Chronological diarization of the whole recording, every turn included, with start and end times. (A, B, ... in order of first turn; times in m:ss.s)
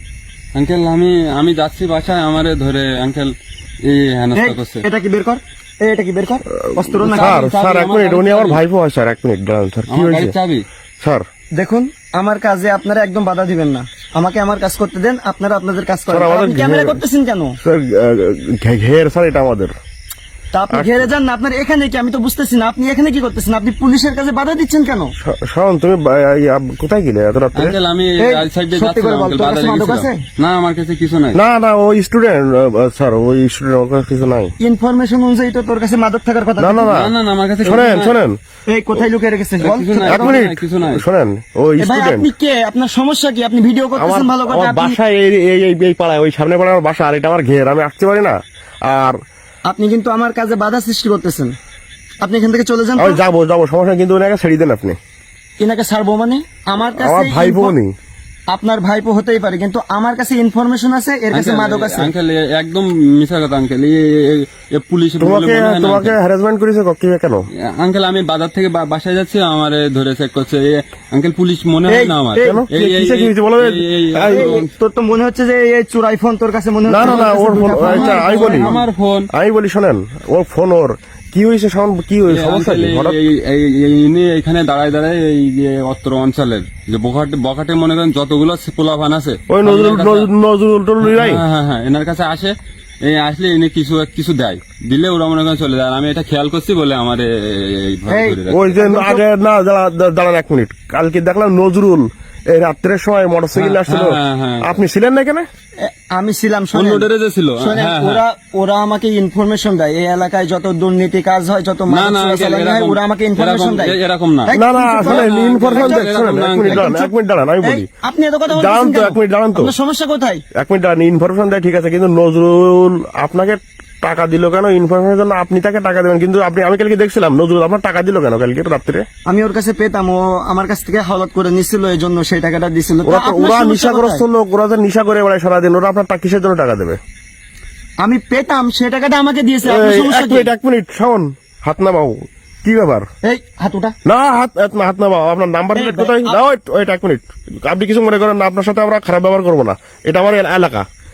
0:00.5-0:04.8 A
0:04.3-0:07.4 B
0:06.6-0:10.4 C
0:07.0-0:08.6 A
0:09.9-0:10.7 A
0:11.0-0:11.3 C
0:11.6-0:17.6 B
0:16.1-0:17.0 C
0:17.6-0:19.7 C
0:20.5-0:25.1 B
0:20.7-0:21.1 C
0:25.2-0:27.8 C
0:27.6-0:31.4 A
0:28.2-0:30.2 B
0:31.3-0:34.6 C
0:34.6-0:37.0 B
0:36.6-0:38.4 C
0:36.9-0:38.2 A
0:38.7-0:40.4 B
0:39.6-0:41.0 A
0:40.1-0:42.3 C
0:41.8-0:45.0 B
0:44.0-0:49.2 C
0:49.6-0:51.6 B
0:52.2-0:53.2 B
0:53.0-0:55.0 C
0:55.6-0:57.8 B
0:57.0-0:57.9 C
0:58.5-1:02.1 B
1:01.3-1:06.2 A
1:05.2-1:07.5 C
1:07.6-1:14.7 A
1:11.9-1:12.7 B
1:12.4-1:14.6 C
1:14.2-1:18.8 B
1:16.9-1:18.8 C
1:17.0-1:19.3 A
1:19.3-1:23.2 C
1:22.3-1:30.3 A
1:29.5-1:31.4 C
1:31.0-1:38.8 A
1:38.1-1:39.2 B
1:38.5-1:45.5 C
1:43.6-1:44.8 A
1:45.8-2:00.4 B
1:46.7-1:48.2 A
1:51.9-1:56.9 A
1:54.5-1:57.9 C
1:58.5-1:59.7 C
2:00.6-2:09.0 C
2:09.3-2:14.2 B
2:13.0-2:17.0 C
2:18.0-2:20.5 B
2:19.6-2:23.1 C
2:23.2-2:24.0 B
2:24.0-2:30.9 C
2:25.8-2:26.4 B